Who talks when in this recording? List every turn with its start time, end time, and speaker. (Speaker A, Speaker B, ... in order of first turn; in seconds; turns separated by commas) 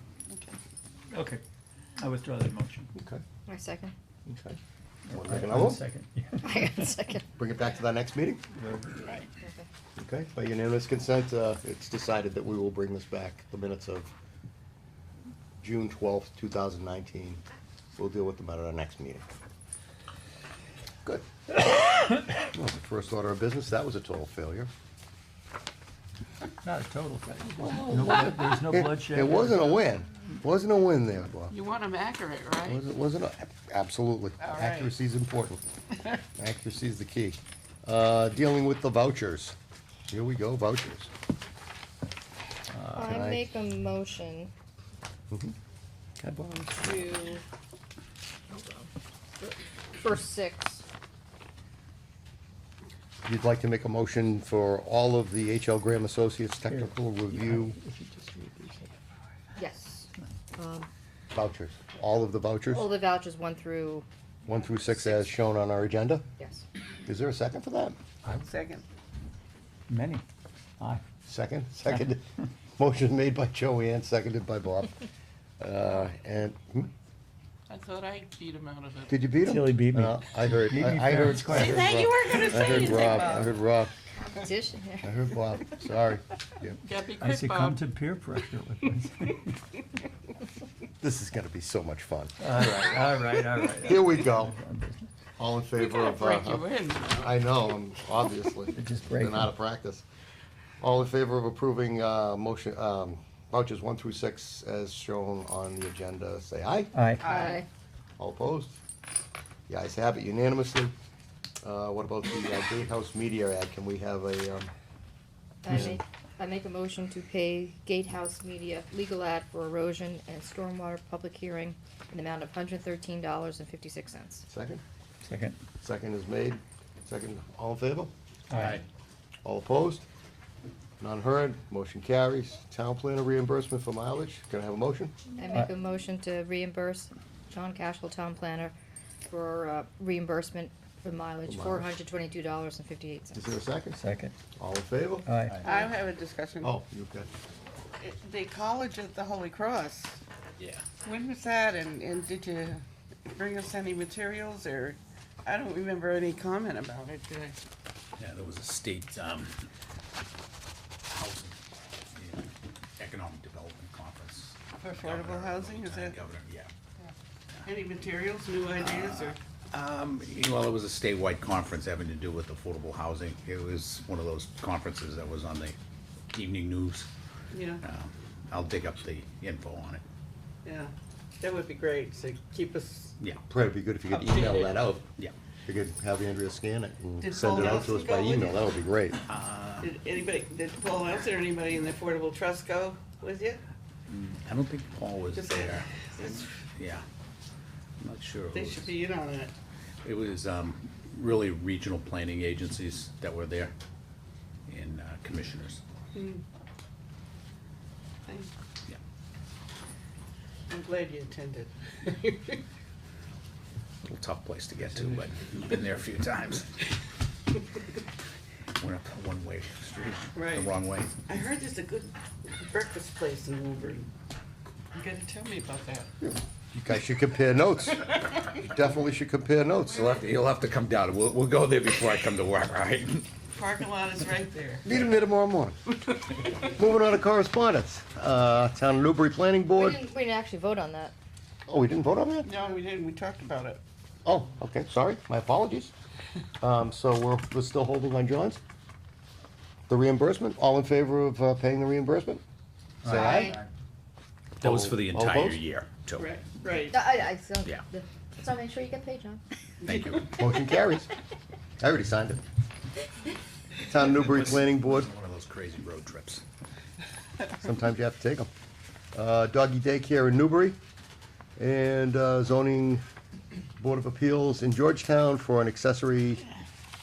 Speaker A: 0.3-0.6, Speaker B: 1.1-1.4, Speaker B: 2.0-2.9, Speaker C: 3.0-3.2, Speaker D: 3.5-3.9, Speaker C: 4.3-4.6, Speaker B: 5.1-6.7, Speaker C: 5.1-5.8, Speaker D: 6.4-7.3, Speaker C: 7.4-8.4, Speaker B: 8.6-9.1, Speaker A: 9.0-9.3, Speaker D: 9.4-9.7, Speaker C: 10.0-14.1, Speaker C: 15.6-17.4, Speaker C: 18.0-19.2, Speaker C: 22.4-24.7, Speaker B: 26.6-29.8, Speaker C: 27.6-31.6, Speaker A: 31.5-32.8, Speaker C: 32.6-35.6, Speaker A: 34.4-35.0, Speaker C: 36.4-39.5, Speaker C: 40.1-41.1, Speaker D: 42.9-44.5, Speaker C: 43.0-43.5, Speaker C: 46.2-47.1, Speaker D: 46.8-47.4, Speaker D: 48.5-48.9, Speaker D: 49.4-50.9, Speaker C: 53.2-57.8, Speaker B: 56.7-59.0, Speaker D: 59.6-60.9, Speaker C: 61.3-62.9, Speaker D: 62.7-64.1, Speaker C: 64.5-66.2, Speaker D: 66.4-66.6, Speaker C: 67.1-68.0, Speaker A: 68.4-68.8, Speaker B: 69.9-70.2, Speaker B: 70.8-71.0, Speaker C: 71.2-72.3, Speaker C: 72.8-75.0, Speaker C: 75.6-76.9, Speaker A: 77.7-79.2, Speaker C: 79.1-83.9, Speaker B: 79.4-82.0, Speaker A: 81.5-83.5, Speaker D: 82.9-83.3, Speaker D: 84.1-85.1, Speaker C: 85.0-86.8, Speaker A: 86.8-87.9, Speaker B: 87.2-89.6, Speaker C: 91.0-92.8, Speaker B: 92.4-95.1, Speaker C: 93.8-94.5, Speaker C: 95.4-100.0, Speaker A: 95.8-97.4, Speaker B: 98.7-99.5, Speaker C: 100.8-106.9, Speaker B: 106.9-107.3, Speaker A: 107.2-107.6, Speaker D: 107.2-107.7, Speaker C: 108.2-108.8, Speaker C: 109.7-110.9, Speaker C: 111.6-114.7, Speaker D: 115.6-124.5, Speaker C: 115.7-116.0, Speaker C: 124.5-124.8, Speaker B: 125.2-125.6, Speaker C: 125.8-128.1, Speaker B: 128.5-128.8, Speaker E: 128.5-128.8, Speaker C: 129.4-130.0, Speaker C: 131.0-135.1, Speaker D: 135.4-138.8, Speaker D: 139.3-143.5, Speaker C: 141.5-142.0, Speaker C: 143.3-144.0, Speaker B: 143.9-144.3, Speaker C: 144.6-145.3, Speaker B: 145.2-145.7, Speaker E: 145.5-145.9, Speaker A: 145.6-146.8, Speaker C: 146.6-147.3, Speaker A: 148.0-150.2, Speaker E: 150.6-150.8, Speaker A: 151.0-157.6, Speaker E: 158.2-159.7, Speaker E: 161.1-161.6, Speaker E: 162.1-166.7, Speaker A: 164.8-166.2, Speaker A: 167.7-169.4, Speaker E: 168.8-175.8, Speaker E: 176.3-177.1, Speaker A: 177.5-177.8, Speaker E: 177.8-180.0, Speaker A: 180.6-183.2, Speaker E: 183.2-183.5, Speaker C: 183.5-185.1, Speaker A: 184.1-184.7, Speaker C: 185.7-189.2, Speaker A: 187.2-188.7, Speaker E: 189.3-189.9, Speaker A: 189.8-193.6, Speaker E: 194.1-195.9, Speaker A: 195.3-196.5, Speaker E: 196.8-197.0, Speaker E: 198.0-199.0, Speaker A: 198.5-199.5, Speaker E: 200.0-203.7, Speaker E: 204.7-205.8, Speaker A: 206.1-206.4, Speaker A: 208.3-208.5, Speaker A: 210.7-212.6, Speaker E: 214.0-216.8, Speaker E: 218.8-221.2, Speaker A: 220.3-224.1, Speaker A: 224.9-226.1, Speaker C: 226.2-230.2, Speaker E: 229.9-233.3, Speaker A: 233.5-234.8, Speaker C: 234.8-235.8, Speaker C: 236.6-240.0, Speaker D: 239.8-241.1, Speaker C: 241.7-242.5, Speaker A: 242.4-243.8, Speaker C: 244.2-245.9, Speaker C: 246.6-248.6, Speaker C: 249.9-252.4, Speaker C: 253.1-253.6, Speaker B: 253.1-253.7, Speaker D: 253.1-253.6, Speaker E: 254.6-256.3, Speaker C: 254.6-255.6, Speaker A: 256.2-257.0, Speaker D: 256.9-259.4, Speaker E: 259.8-260.4, Speaker C: 260.3-261.1, Speaker C: 261.8-262.4, Speaker C: 263.9-265.1, Speaker E: 264.1-266.4, Speaker C: 267.5-268.5, Speaker C: 269.1-270.8, Speaker C: 271.6-273.0, Speaker C: 273.8-276.5